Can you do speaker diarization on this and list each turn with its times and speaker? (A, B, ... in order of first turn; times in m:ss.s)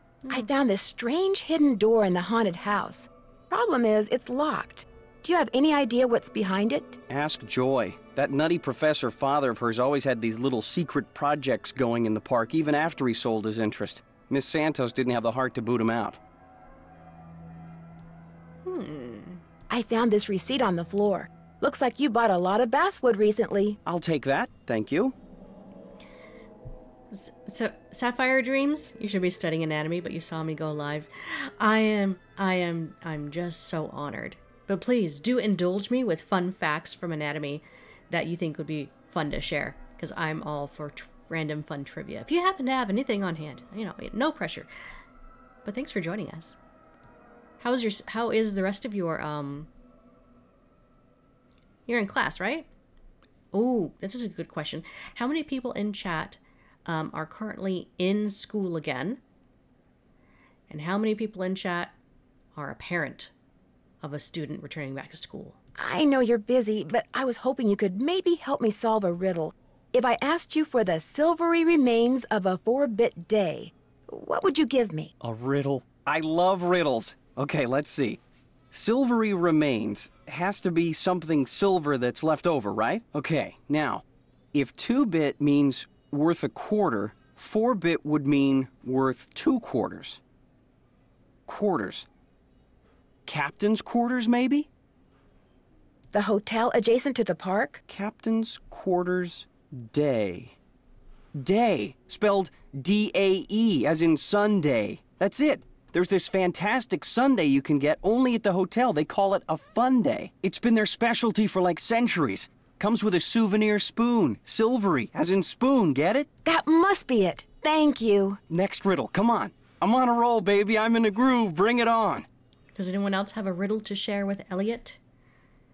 0:00.3-0:07.0 A
0:07.1-0:16.2 B
0:18.6-0:19.4 C
0:19.7-0:23.8 A
0:23.8-0:25.1 B
0:27.1-0:44.7 C
0:45.6-0:46.6 C
0:47.6-0:49.7 C
0:51.9-0:52.7 C
0:53.5-0:59.2 C
1:00.7-1:01.9 C
1:02.5-1:03.3 C
1:04.0-1:05.6 C
1:05.8-1:15.1 A
1:15.2-1:18.2 B
1:18.7-1:24.0 B
1:24.5-1:30.2 B
1:31.5-1:32.0 B
1:33.2-1:34.7 B
1:36.1-1:37.8 A
1:37.9-1:40.6 B
1:41.3-1:56.3 B
1:56.4-1:58.4 A
1:58.5-2:02.2 B
2:02.7-2:05.0 C